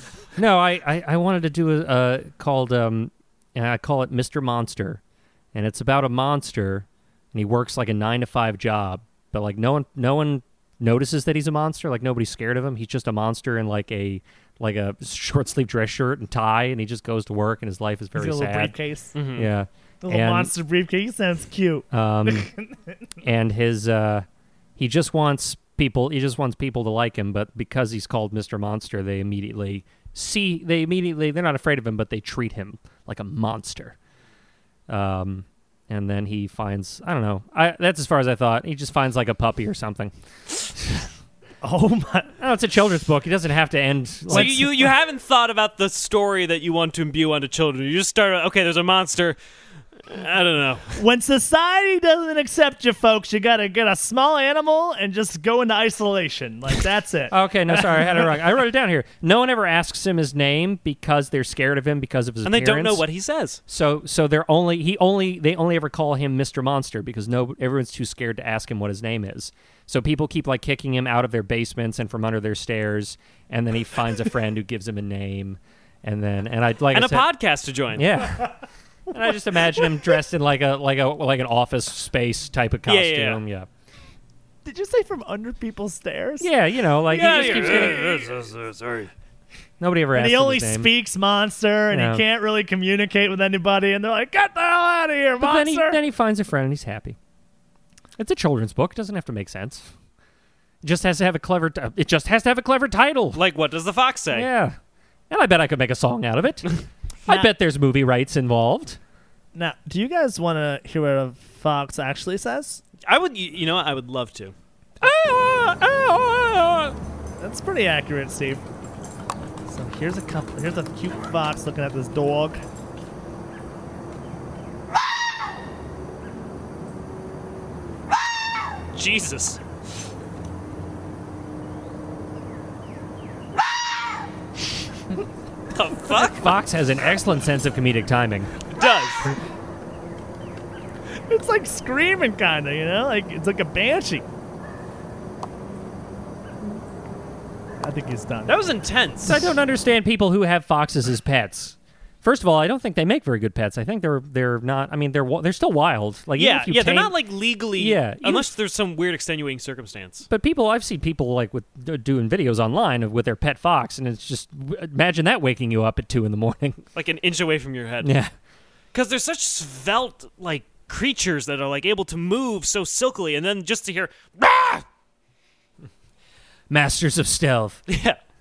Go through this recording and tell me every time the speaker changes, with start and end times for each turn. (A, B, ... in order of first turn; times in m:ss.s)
0:00.4-0:05.0 A
0:05.5-0:18.8 A
0:18.2-0:19.1 B
0:19.2-0:19.5 C
0:19.3-0:20.5 A
0:20.0-0:22.8 B
0:21.9-0:22.5 A
0:23.2-0:24.3 A
0:24.8-0:34.0 A
0:34.9-0:40.1 A
0:40.6-0:41.1 A
0:41.6-0:42.3 B
0:42.4-0:44.7 A
0:44.3-0:44.9 B
0:44.3-0:49.4 C
0:50.1-0:51.0 C
0:51.0-0:58.4 B
0:57.3-1:03.1 A
1:02.4-1:03.6 C
1:03.7-1:17.3 A
1:16.9-1:18.2 C
1:17.9-1:18.5 A
1:19.1-1:23.7 A
1:19.8-1:20.1 B
1:22.9-1:23.4 C
1:24.6-1:26.5 B
1:26.4-1:28.1 A
1:27.1-1:28.3 B
1:27.1-1:29.1 C
1:29.8-1:30.9 A
1:30.1-1:36.0 B
1:31.9-1:32.2 A
1:35.4-1:37.2 A
1:38.2-1:39.9 A
1:40.8-1:43.4 A
1:43.3-1:44.5 C
1:44.3-1:44.8 A
1:45.3-1:49.0 A
1:49.5-1:52.8 B
1:53.0-1:54.6 C
1:55.0-1:57.0 A
1:57.4-1:58.6 B
1:59.7-2:02.6 B
2:08.9-2:09.6 C
2:15.7-2:16.6 C
2:16.1-2:18.5 A
2:18.7-2:19.3 C
2:21.3-2:24.3 B
2:27.8-2:28.6 B
2:28.5-2:29.5 C
2:29.2-2:37.2 A
2:36.4-2:40.3 C
2:37.8-2:38.5 A
2:40.3-2:46.8 A
2:47.0-2:48.1 C
2:48.0-2:48.3 A
2:48.9-2:54.8 C
2:56.7-2:57.8 A
2:57.9-2:58.2 C